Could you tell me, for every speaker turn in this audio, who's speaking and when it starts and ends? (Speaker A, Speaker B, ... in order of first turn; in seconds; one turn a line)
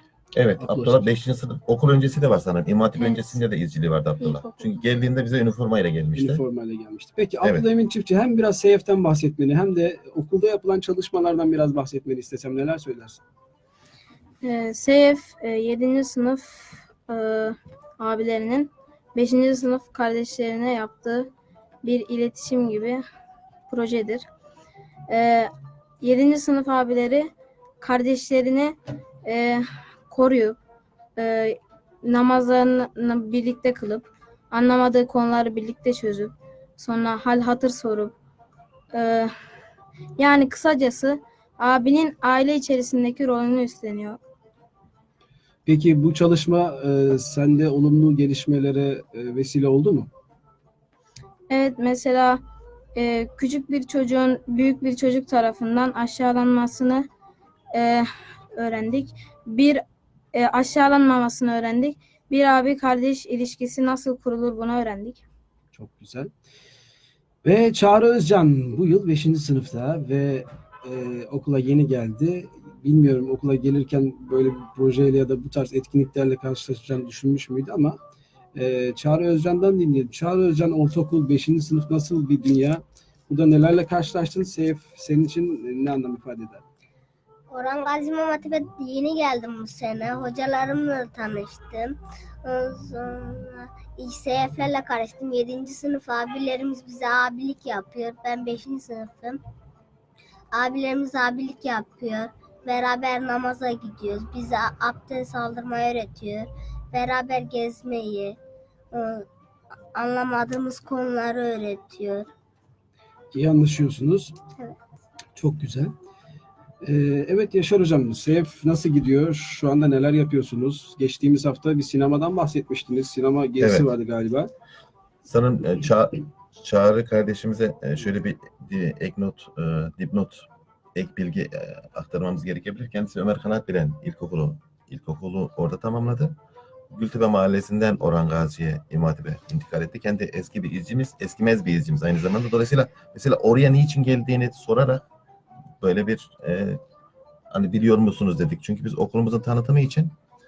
Speaker A: 0.3-6.4
Speaker B: 0.6-1.1
Speaker C: 4.2-4.7
Speaker B: 6.2-13.2
Speaker A: 7.4-7.7
Speaker C: 14.4-21.3
Speaker C: 21.8-23.0
Speaker C: 23.7-24.2
Speaker C: 25.1-30.6
Speaker C: 31.1-38.1
Speaker C: 38.9-39.3
Speaker C: 40.2-44.2
Speaker B: 45.7-50.1
Speaker C: 51.5-52.4
Speaker C: 53.0-57.1
Speaker C: 57.7-59.8
Speaker C: 60.3-65.2
Speaker B: 65.7-66.3
Speaker B: 67.4-78.0
Speaker B: 78.5-86.6
Speaker D: 87.5-99.4
Speaker D: 100.5-108.4
Speaker D: 108.9-109.3
Speaker D: 109.9-112.3
Speaker B: 113.3-114.3
Speaker B: 115.3-115.9
Speaker B: 116.8-124.5
Speaker A: 123.6-123.9
Speaker A: 125.2-136.3
Speaker A: 136.9-145.1
Speaker A: 145.8-146.8
Speaker A: 147.5-150.1